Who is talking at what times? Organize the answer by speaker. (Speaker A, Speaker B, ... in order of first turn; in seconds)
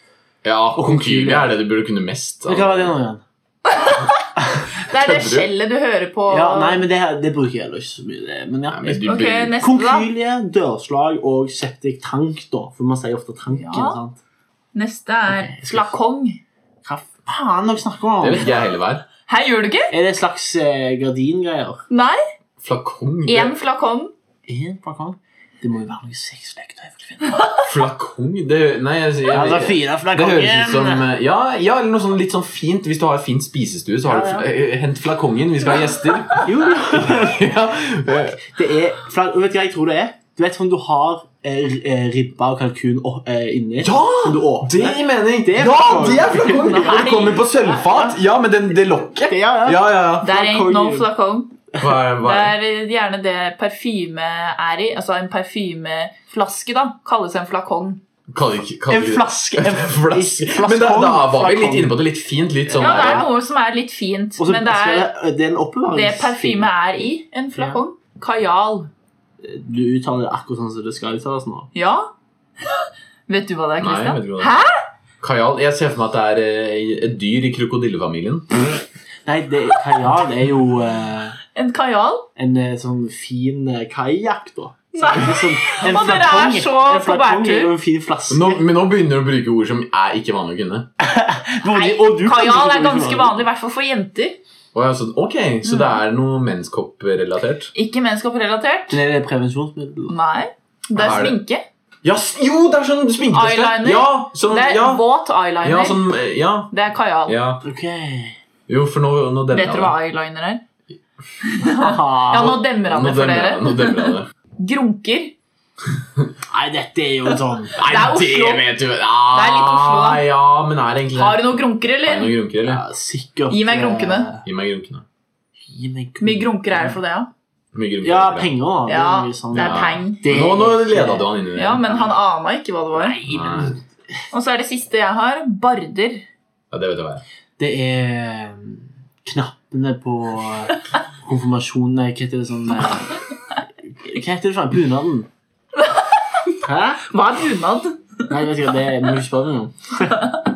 Speaker A: 0.4-3.0, 4.9-5.5, 8.7-9.6, 18.2-19.1, 22.6-23.5, 27.6-38.5, 43.8-50.3, 51.8-52.5, 58.3-63.3, 73.8-74.6, 75.2-78.5, 88.3-90.9, 94.7-97.7, 100.9-101.4, 102.0-105.0, 105.6-106.7, 107.2-107.6, 108.7-110.0, 112.3-114.3, 117.8-122.8, 124.4-125.0, 127.7-128.5, 129.5-132.0, 133.3-133.8, 136.7-137.2
Speaker B: 0.7-1.6, 2.5-3.2, 6.3-14.2, 15.3-15.9, 16.8-18.5, 19.9-21.8, 24.4-27.4, 29.3-31.1, 34.0-34.5, 36.4-37.5, 38.1-47.1, 49.2-51.1, 58.9-62.0, 62.7-63.2, 64.4-66.7, 69.4-71.7, 79.2-81.4, 82.3-88.6, 91.0-93.4, 98.9-100.1, 107.6-108.4, 111.7-112.6, 116.5-117.8, 122.6-124.4, 125.6-127.0, 128.0-131.3, 132.9-133.8, 137.6-143.2, 143.8-145.3, 146.6-147.1, 148.3-150.2
Speaker C: 3.7-6.8, 9.0-10.1, 13.5-14.0, 14.7-16.4, 19.3-19.9, 21.9-22.2, 23.3-24.1, 46.1-47.6, 50.2-51.6, 52.2-58.0, 62.8-65.1, 65.9-68.9, 71.7-72.1, 72.7-74.8, 81.5-82.3, 84.9-87.7, 91.7-94.4, 95.6-96.0, 97.7-99.0, 100.1-101.6, 103.3-106.1, 106.7-107.3, 109.5-110.6, 111.4-115.3, 117.7-118.7, 119.3-120.2, 121.1-122.3, 123.5-124.3, 126.2-127.3, 128.9-130.3, 131.5-133.2, 134.3-136.2, 147.1-148.3